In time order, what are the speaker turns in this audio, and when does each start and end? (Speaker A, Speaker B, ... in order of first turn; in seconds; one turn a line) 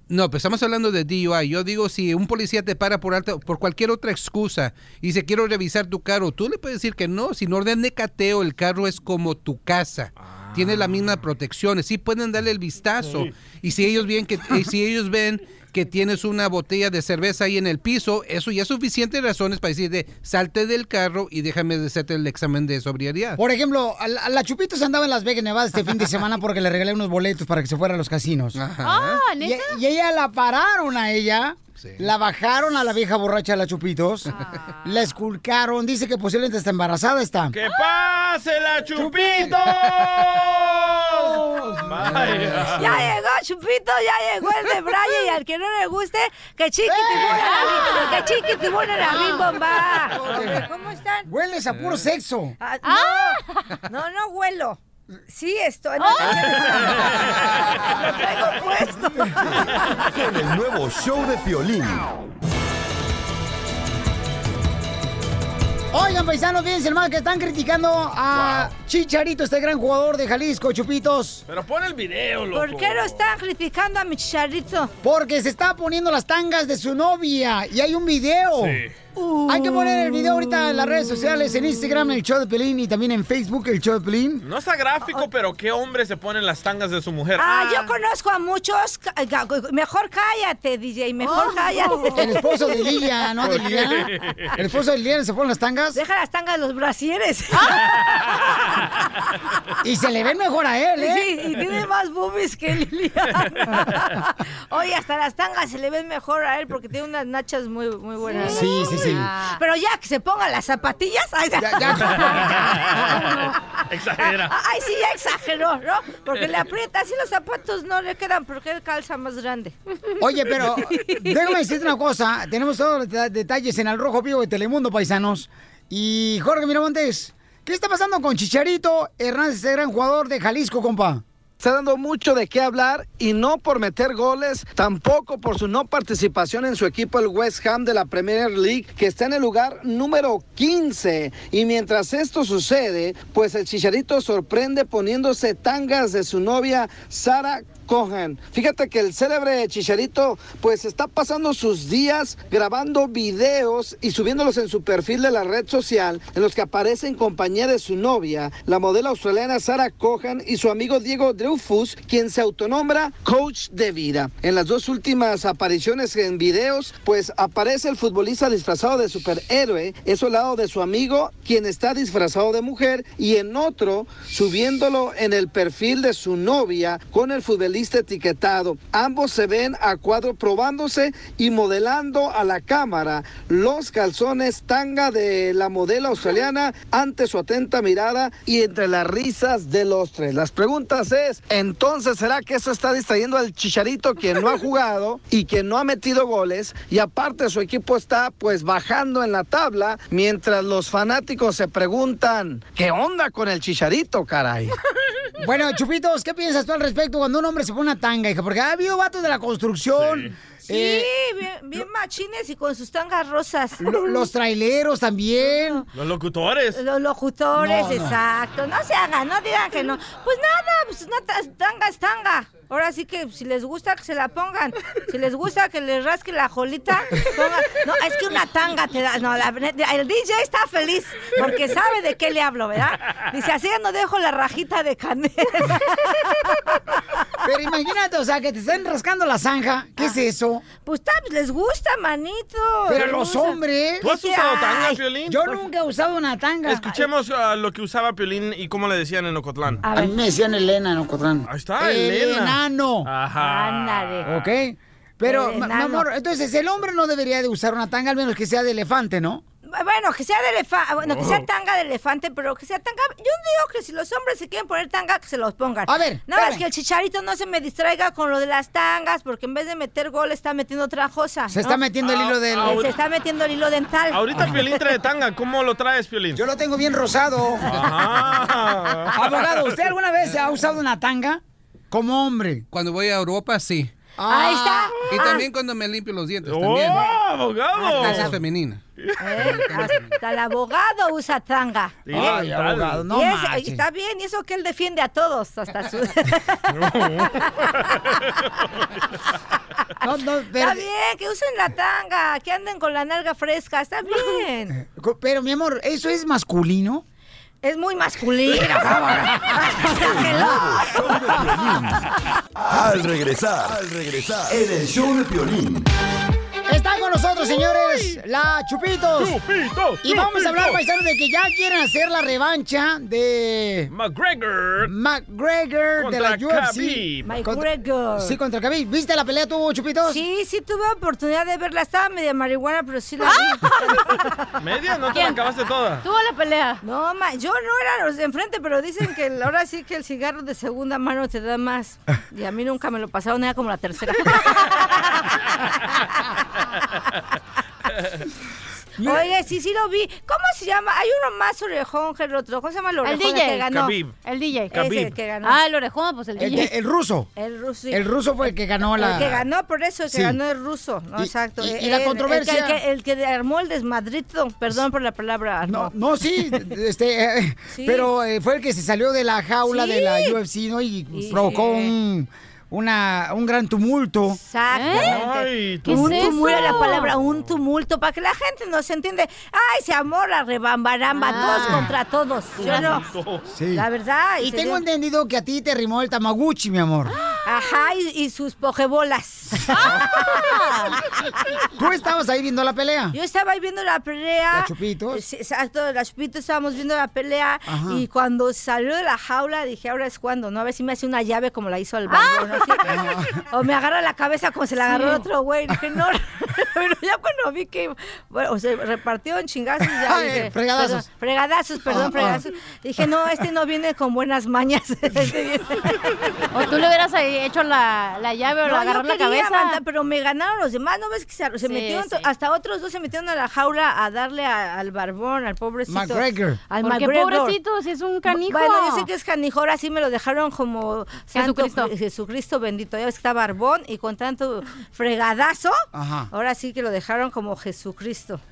Speaker A: 0.1-23.4
Speaker B: 10.2-11.2
Speaker B: 13.0-13.3
Speaker C: 23.4-28.6
Speaker A: 28.6-29.2
Speaker D: 28.8-29.8
Speaker C: 29.4-34.3
Speaker A: 31.8-32.1
Speaker C: 34.8-37.6
Speaker B: 37.5-43.1
Speaker C: 39.0-39.7
Speaker C: 41.2-41.9
Speaker A: 42.0-43.0
Speaker E: 42.8-51.3
Speaker C: 46.9-47.9
Speaker D: 47.3-48.2
Speaker C: 49.0-49.6
Speaker C: 50.1-50.7
Speaker C: 51.2-52.5
Speaker E: 52.6-59.5
Speaker D: 52.8-53.7
Speaker D: 56.0-56.8
Speaker F: 59.4-62.1
Speaker C: 65.9-71.4
Speaker B: 68.3-68.7
Speaker B: 71.5-73.3
Speaker E: 72.5-74.9
Speaker C: 75.0-78.8
Speaker B: 78.6-79.0
Speaker E: 79.2-79.5
Speaker C: 79.5-84.4
Speaker B: 84.4-88.0
Speaker E: 87.4-92.8
Speaker D: 91.2-92.3
Speaker C: 92.2-96.0
Speaker B: 93.4-94.6
Speaker E: 95.9-98.4
Speaker C: 99.8-101.3
Speaker E: 101.0-119.8
Speaker D: 108.4-109.5
Speaker C: 108.4-109.3
Speaker C: 111.6-112.6
Speaker B: 111.9-114.6
Speaker C: 120.2-131.2
Speaker G: 131.6-204.8
Speaker C: 205.4-211.1
Speaker B: 209.9-210.3
Speaker E: 210.7-214.3
Speaker C: 213.8-215.8
Speaker E: 215.4-215.8
Speaker B: 215.9-216.8
Speaker E: 216.7-236.6
Speaker C: 217.6-218.2
Speaker C: 237.4-240.6
Speaker E: 240.8-243.6
Speaker C: 242.9-244.1
Speaker B: 244.0-245.4
Speaker E: 244.1-245.6
Speaker C: 245.3-247.0
Speaker B: 246.7-249.8
Speaker E: 249.9-250.2
Speaker C: 249.9-253.1
Speaker B: 251.5-254.5
Speaker E: 253.4-254.3
Speaker C: 254.2-259.4
Speaker E: 255.2-256.1
Speaker E: 259.7-271.8
Speaker B: 261.0-261.5
Speaker C: 265.9-266.6
Speaker C: 271.5-272.9
Speaker B: 272.0-272.9
Speaker E: 272.6-274.5
Speaker B: 274.1-276.4
Speaker C: 274.4-274.6
Speaker C: 276.4-277.9
Speaker B: 277.6-279.7
Speaker C: 279.1-282.7
Speaker A: 282.7-283.9
Speaker C: 284.2-285.2
Speaker E: 284.3-285.4
Speaker A: 285.1-287.1
Speaker B: 286.4-288.4
Speaker C: 287.8-288.3
Speaker A: 287.9-288.8
Speaker B: 289.0-289.7
Speaker E: 289.2-292.0
Speaker B: 292.1-293.1
Speaker C: 292.1-293.8
Speaker E: 293.1-296.8
Speaker B: 296.7-298.8
Speaker C: 300.0-300.9
Speaker E: 300.6-304.8
Speaker C: 304.7-307.0
Speaker E: 307.6-310.9
Speaker C: 308.6-309.6
Speaker F: 309.9-312.0
Speaker F: 312.6-315.9
Speaker C: 316.7-319.4
Speaker B: 317.6-318.2
Speaker B: 319.1-320.8
Speaker C: 320.0-323.9
Speaker B: 323.9-324.9
Speaker C: 324.8-327.7
Speaker B: 326.0-327.3
Speaker E: 327.2-328.4
Speaker C: 328.2-330.2
Speaker E: 330.0-334.5
Speaker D: 333.2-334.2
Speaker B: 334.6-336.0
Speaker D: 335.1-335.4
Speaker D: 336.0-336.8
Speaker E: 336.8-345.1
Speaker C: 349.0-349.3
Speaker E: 349.0-353.9
Speaker D: 353.0-354.8
Speaker B: 353.7-354.2
Speaker B: 354.7-355.2
Speaker E: 354.7-355.6
Speaker D: 355.4-356.7
Speaker C: 356.4-357.3
Speaker E: 357.4-366.6
Speaker C: 357.9-359.4
Speaker C: 360.1-360.4
Speaker C: 361.2-362.8
Speaker C: 365.6-374.4
Speaker E: 367.7-368.1
Speaker E: 369.6-370.4
Speaker E: 371.1-371.9
Speaker E: 374.3-383.1
Speaker D: 374.7-375.2
Speaker B: 374.9-377.6
Speaker D: 375.9-377.1
Speaker D: 381.1-382.0
Speaker C: 381.5-381.9
Speaker B: 382.6-383.4
Speaker D: 382.6-383.0
Speaker C: 383.5-383.9
Speaker E: 383.7-384.8
Speaker C: 384.4-387.1
Speaker D: 387.2-387.9
Speaker E: 387.4-390.9
Speaker D: 390.4-390.8
Speaker C: 391.8-393.2
Speaker E: 393.1-416.0
Speaker C: 394.5-395.2
Speaker C: 397.7-398.0
Speaker D: 402.1-402.9
Speaker C: 402.8-403.4
Speaker D: 404.9-405.2
Speaker C: 409.9-411.1
Speaker C: 411.9-412.4
Speaker D: 416.5-419.8
Speaker E: 418.6-427.6
Speaker D: 421.6-422.3
Speaker C: 425.9-426.6
Speaker D: 426.8-429.1
Speaker E: 428.3-438.4
Speaker D: 431.3-431.9
Speaker C: 435.9-436.3